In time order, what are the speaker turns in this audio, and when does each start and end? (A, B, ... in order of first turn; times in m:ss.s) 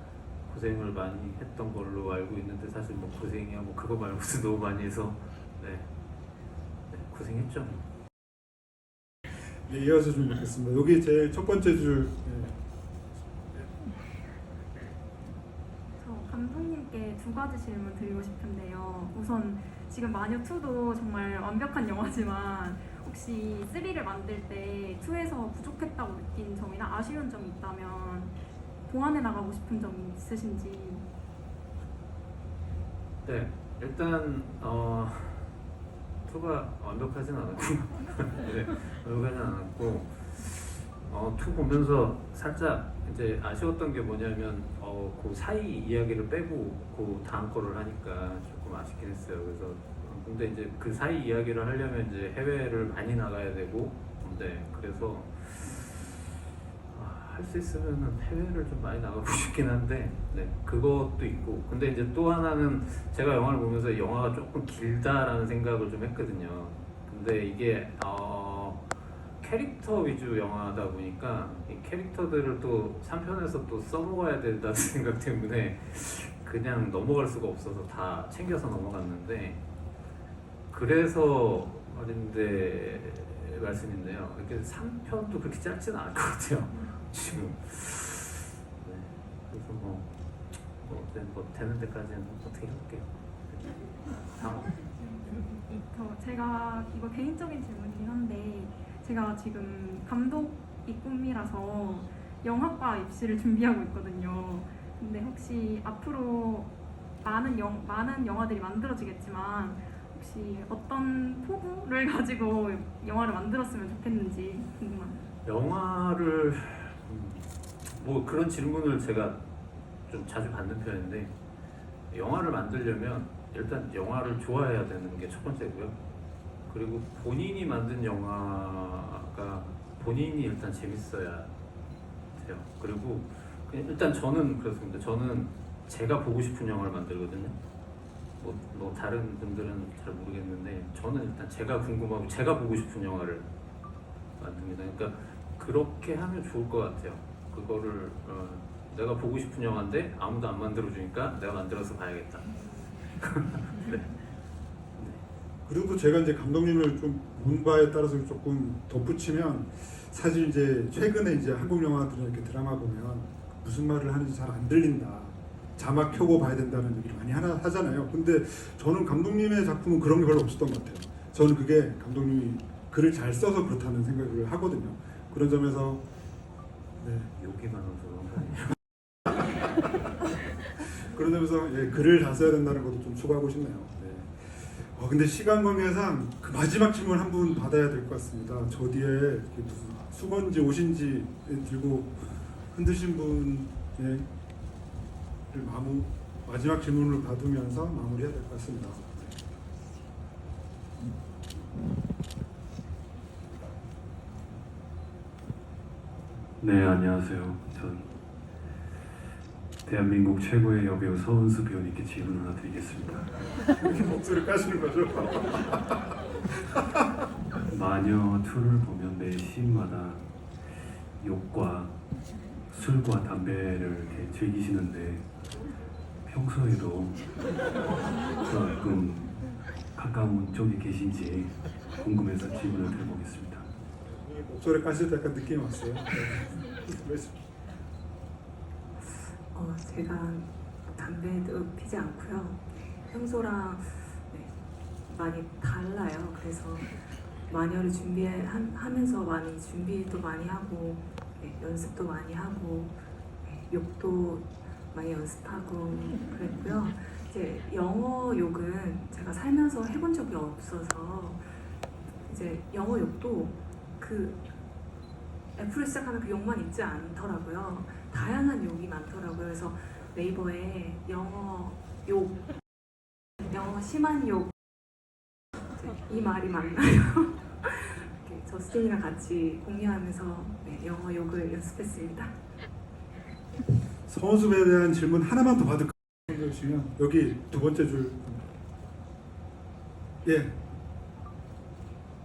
0:00.5-0:05.9 A
0:06.9-0:07.8 A
0:09.7-0:12.6 B
0:16.0-0:31.0 C
0:33.2-0:35.6 A
0:36.2-0:56.2 A
0:56.9-1:08.9 A
1:09.4-1:19.6 A
1:20.7-1:30.1 A
1:30.8-1:34.8 A
1:35.2-1:55.2 C
1:55.4-1:59.4 A
2:00.1-2:01.4 A
2:02.1-2:06.0 A
2:06.7-2:11.5 A
2:12.4-2:17.6 A
2:18.4-2:23.5 A
2:24.4-2:34.1 A
2:35.7-2:56.0 B
2:57.0-2:57.3 B
2:57.4-2:58.8 A
3:00.9-3:14.3 B
3:15.5-3:19.4 B
3:26.6-3:28.1 D
3:29.8-3:33.3 D
3:33.8-3:35.9 B
3:37.7-3:40.2 D
3:41.2-3:42.0 D
3:42.7-3:45.3 D
3:46.3-3:47.2 D
3:48.4-3:49.4 D
3:50.0-3:53.7 D
3:54.2-3:57.4 B
3:59.5-4:21.5 E
4:22.2-4:24.5 E
4:25.6-4:32.5 E
4:33.4-4:34.5 E
4:35.7-4:42.4 E
4:44.1-4:48.4 B
4:50.2-4:50.6 B